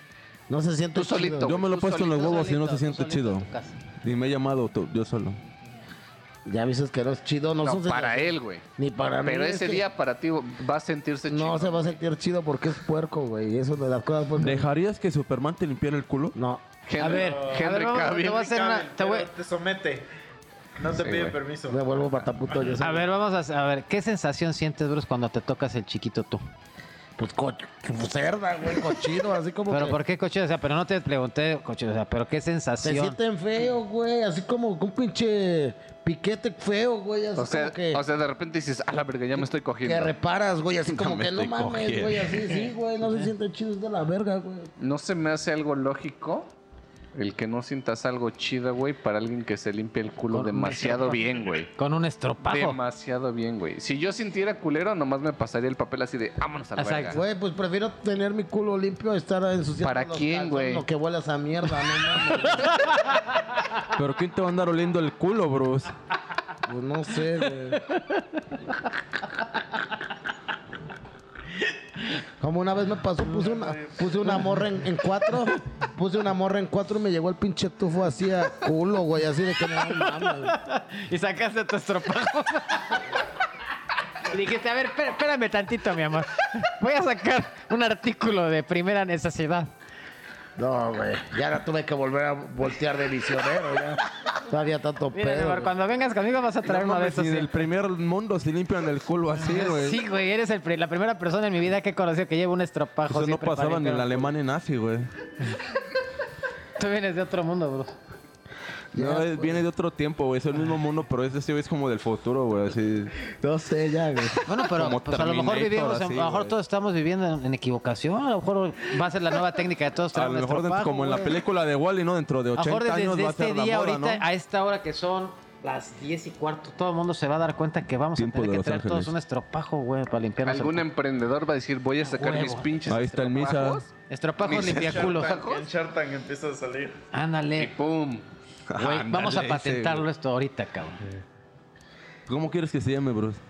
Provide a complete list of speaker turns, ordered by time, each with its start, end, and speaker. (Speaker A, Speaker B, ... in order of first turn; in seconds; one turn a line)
Speaker A: 0.5-1.6
Speaker B: 0.9-2.5
Speaker C: 1.4-3.5
Speaker D: 1.9-3.8
Speaker C: 4.0-5.4
Speaker A: 6.5-9.8
Speaker B: 7.6-8.6
Speaker B: 9.2-12.0
Speaker A: 11.3-14.7
Speaker C: 14.4-16.4
Speaker A: 16.3-16.6
Speaker B: 16.9-18.4
Speaker D: 17.0-19.3
Speaker E: 17.1-20.1
Speaker E: 20.8-21.8
Speaker B: 20.9-21.4
Speaker A: 21.7-23.1
Speaker D: 22.8-26.4
Speaker A: 27.2-30.0
Speaker D: 29.7-33.2
Speaker A: 32.8-38.0
Speaker B: 37.4-40.1
Speaker A: 39.3-44.7
Speaker C: 40.9-42.5
Speaker B: 44.8-46.5
Speaker B: 47.1-51.7
Speaker D: 50.3-51.2
Speaker D: 51.7-52.8
Speaker B: 52.4-57.2
Speaker D: 56.8-57.2
Speaker A: 57.1-62.8
Speaker B: 59.8-60.9
Speaker D: 62.6-63.2
Speaker C: 63.9-65.9
Speaker A: 66.7-67.8
Speaker D: 67.9-68.7
Speaker A: 72.4-80.5
Speaker D: 80.1-83.1
Speaker D: 84.2-89.7
Speaker A: 90.6-95.7
Speaker D: 95.1-97.6
Speaker C: 96.6-100.0
Speaker D: 99.3-104.3
Speaker C: 103.1-105.1
Speaker D: 106.8-108.0
Speaker C: 108.9-113.1
Speaker A: 108.9-109.6
Speaker A: 113.4-114.4
Speaker D: 114.5-121.3
Speaker C: 114.7-116.5
Speaker C: 120.1-124.2
Speaker D: 122.5-130.8
Speaker C: 128.2-129.1
Speaker B: 130.4-133.9
Speaker D: 132.1-132.7
Speaker C: 132.9-133.8
Speaker D: 134.1-135.3
Speaker B: 134.4-135.7
Speaker E: 134.5-137.0
Speaker D: 137.1-137.7
Speaker B: 137.6-138.2
Speaker C: 138.7-140.0
Speaker D: 138.8-141.0
Speaker C: 142.3-143.4